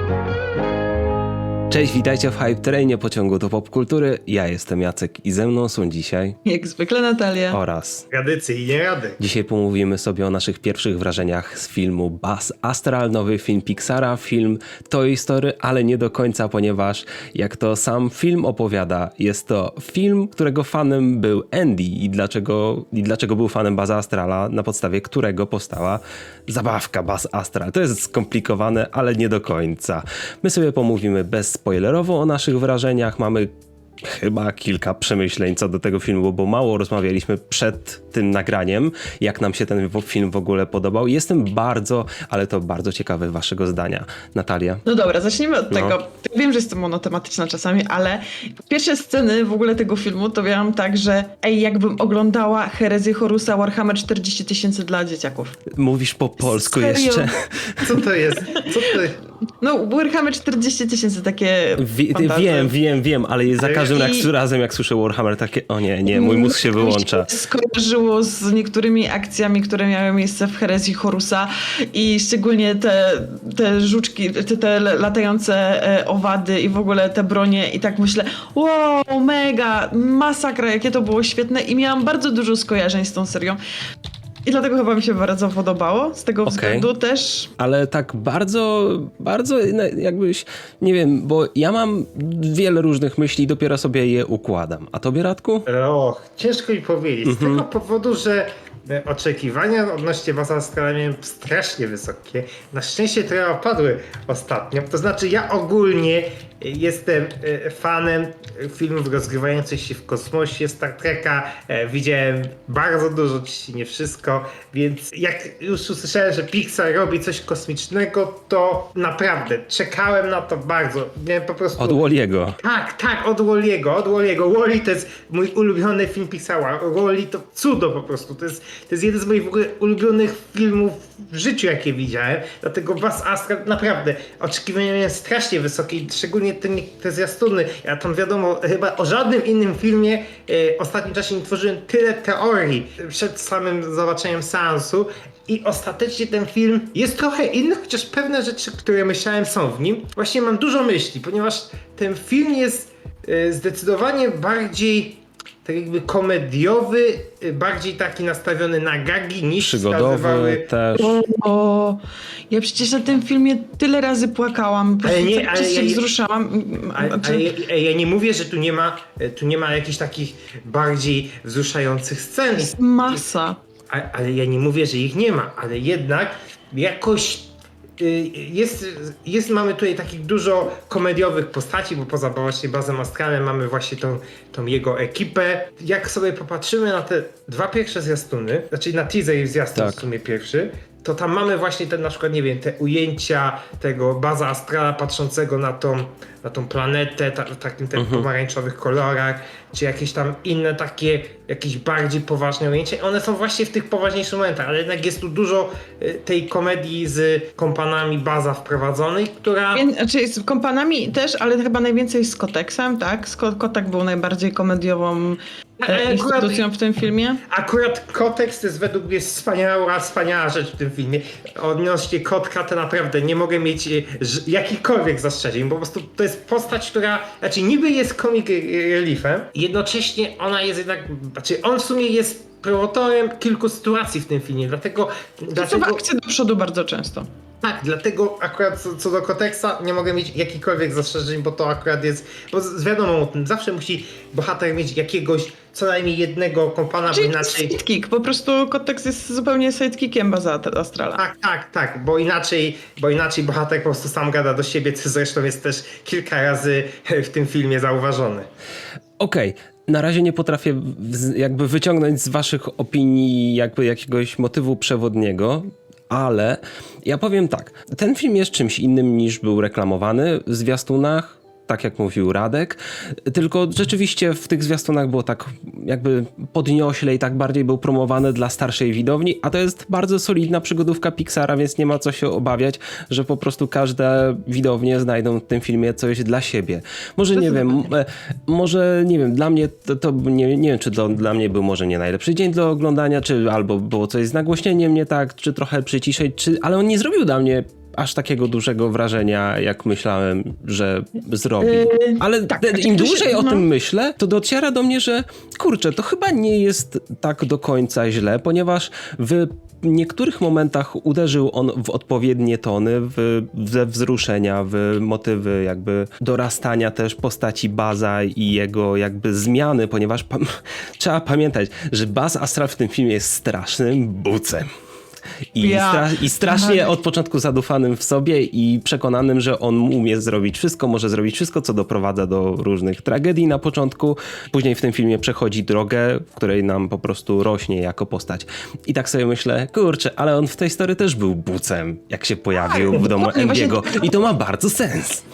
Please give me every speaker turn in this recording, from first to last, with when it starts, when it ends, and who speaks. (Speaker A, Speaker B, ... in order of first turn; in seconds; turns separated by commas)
Speaker A: 1.7-6.3, Speaker B: 6.5-7.6, Speaker A: 7.5-8.0, Speaker C: 8.1-9.2, Speaker A: 9.2-33.5, Speaker A: 34.0-44.8, Speaker B: 44.9-55.5, Speaker A: 45.7-46.0, Speaker A: 55.7-57.8, Speaker B: 56.4-57.3, Speaker C: 57.8-59.2, Speaker B: 58.4-59.0, Speaker B: 59.6-62.7, Speaker A: 61.8-67.3, Speaker C: 63.6-63.9, Speaker B: 63.9-64.3, Speaker B: 66.1-83.6, Speaker B: 84.4-87.5, Speaker A: 86.5-86.9, Speaker A: 87.6-95.7, Speaker C: 95.7-122.0, Speaker A: 97.2-97.6, Speaker A: 121.8-122.6, Speaker C: 122.6-160.7, Speaker A: 159.6-161.2, Speaker B: 160.9-167.5, Speaker C: 165.0-166.0, Speaker C: 166.9-172.8, Speaker B: 172.6-173.6, Speaker C: 173.9-209.8, Speaker A: 189.7-190.0, Speaker A: 197.9-198.2, Speaker B: 209.7-217.4, Speaker C: 215.8-216.7, Speaker C: 217.5-236.0, Speaker B: 235.6-237.3, Speaker C: 237.6-247.7, Speaker B: 247.1-251.2, Speaker C: 251.2-258.5, Speaker A: 259.2-320.4, Speaker B: 287.3-287.9, Speaker B: 301.6-303.7, Speaker A: 321.0-324.6, Speaker A: 325.5-345.2, Speaker B: 325.6-326.9, Speaker B: 342.5-344.3